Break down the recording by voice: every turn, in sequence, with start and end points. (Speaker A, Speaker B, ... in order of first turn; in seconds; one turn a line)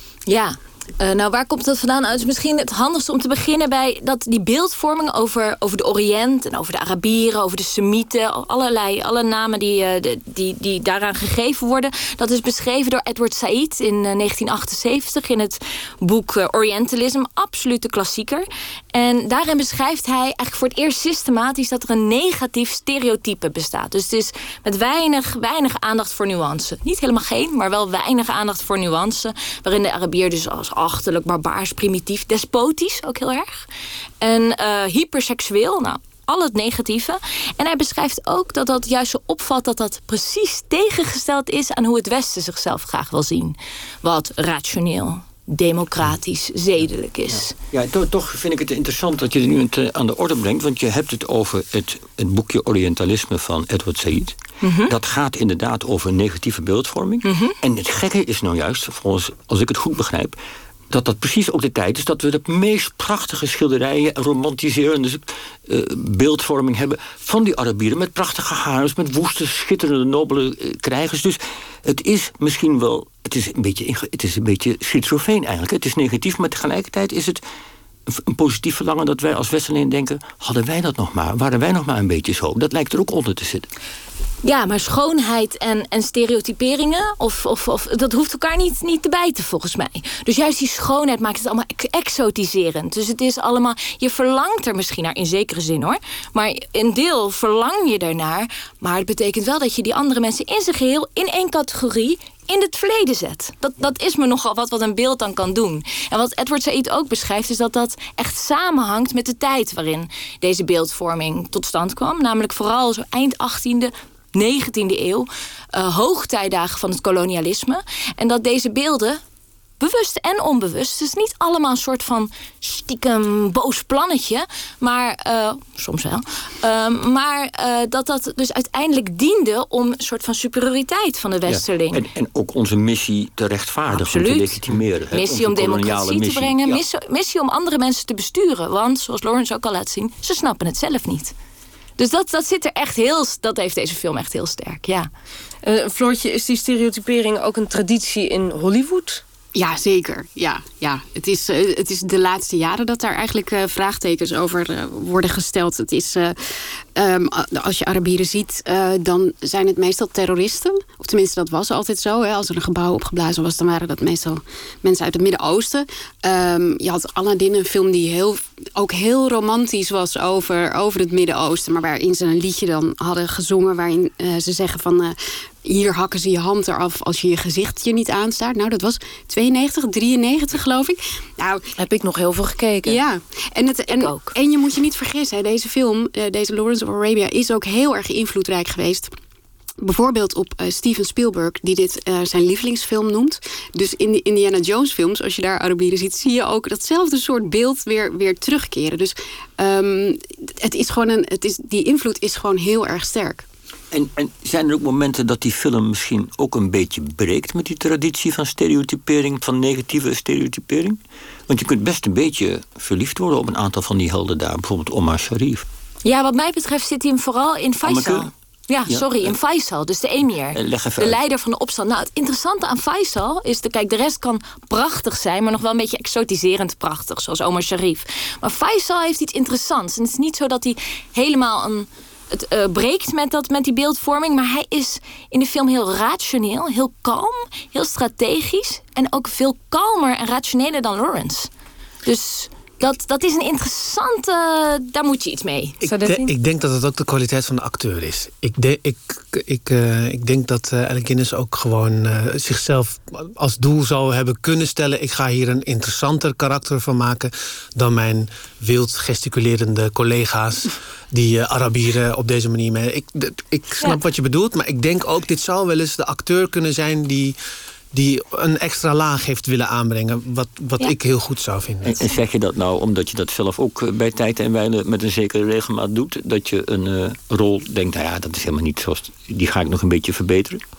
Speaker A: 0.3-33.7
Speaker A: 34.2-47.5
Speaker B: 47.7-54.4
Speaker A: 54.6-54.9
Speaker B: 54.9-60.4
Speaker A: 57.2-57.5
Speaker B: 60.9-77.4
Speaker B: 78.1-83.7
Speaker A: 84.4-119.2
Speaker A: 119.8-132.0
Speaker B: 131.5-136.8
Speaker A: 133.9-141.3
Speaker A: 142.0-145.1
Speaker C: 145.6-149.2
Speaker D: 149.6-156.4
Speaker D: 156.9-181.7
Speaker C: 181.8-183.0
Speaker D: 182.8-189.1
Speaker A: 183.9-184.3
Speaker D: 189.8-203.4
Speaker B: 203.9-215.7
Speaker A: 216.0-241.5
Speaker B: 217.8-218.3
Speaker B: 218.9-219.3
Speaker B: 220.5-221.2
Speaker A: 242.1-245.8
Speaker E: 245.8-267.4
Speaker C: 245.8-246.3
Speaker E: 267.9-272.0
Speaker B: 271.9-280.6